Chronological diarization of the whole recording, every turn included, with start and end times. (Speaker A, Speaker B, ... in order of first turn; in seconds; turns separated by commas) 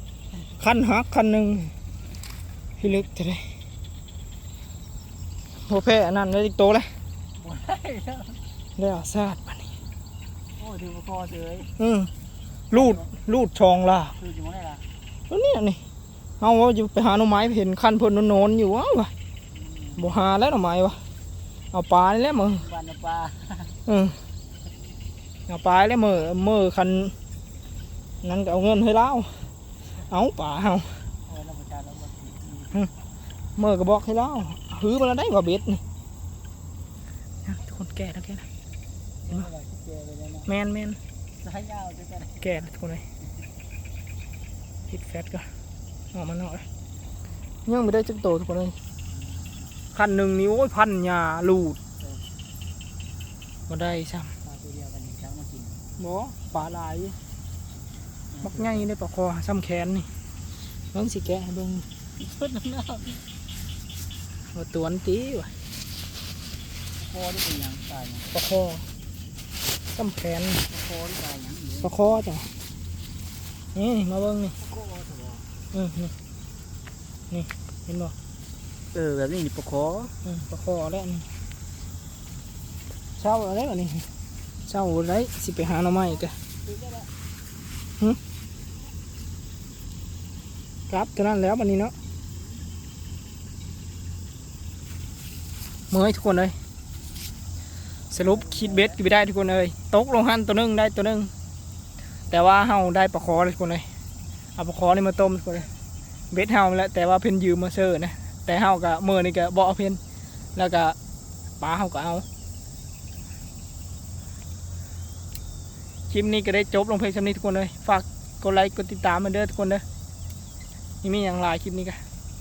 Speaker A: 0.6-1.7, Speaker A: 2.8-3.5, Speaker A: 5.6-6.9, Speaker B: 7.4-8.4, Speaker A: 8.8-9.7, Speaker B: 10.6-11.7, Speaker A: 11.8-12.1, Speaker A: 12.7-14.2, Speaker B: 12.7-13.1, Speaker B: 14.2-14.8, Speaker A: 15.3-15.8, Speaker A: 16.4-19.1, Speaker B: 19.5-20.2, Speaker A: 20.0-21.0, Speaker A: 21.7-22.7, Speaker B: 22.5-23.7, Speaker A: 23.9-24.2, Speaker A: 25.5-27.1, Speaker A: 28.2-31.0, Speaker B: 31.3-32.8, Speaker A: 33.6-35.8, Speaker A: 37.4-38.5, Speaker B: 39.2-40.5, Speaker A: 40.5-41.0, Speaker B: 41.4-42.4, Speaker A: 42.4-43.0, Speaker A: 44.9-45.5, Speaker A: 46.1-46.6, Speaker A: 47.6-48.8, Speaker B: 49.1-49.5, Speaker A: 49.9-51.8, Speaker A: 53.7-54.3, Speaker B: 54.4-55.8, Speaker A: 56.0-57.2, Speaker B: 58.3-58.8, Speaker A: 58.4-60.1, Speaker A: 60.9-61.9, Speaker B: 62.2-63.2, Speaker A: 64.5-65.5, Speaker B: 67.0-68.3, Speaker A: 68.3-68.8, Speaker A: 69.9-70.6, Speaker B: 70.7-72.0, Speaker A: 71.8-72.5, Speaker A: 73.7-74.6, Speaker B: 74.6-75.4, Speaker A: 75.7-76.1, Speaker A: 77.3-78.1, Speaker B: 78.9-80.1, Speaker A: 80.2-81.3, Speaker A: 83.2-84.1, Speaker A: 84.7-86.3, Speaker B: 86.6-87.1, Speaker A: 90.9-91.9, Speaker A: 95.9-96.5, Speaker A: 98.1-101.3, Speaker B: 98.2-99.0, Speaker A: 102.3-103.8, Speaker A: 104.6-105.7, Speaker A: 106.3-110.0, Speaker A: 110.5-111.0, Speaker A: 111.6-112.2, Speaker A: 116.1-119.8, Speaker A: 121.0-122.0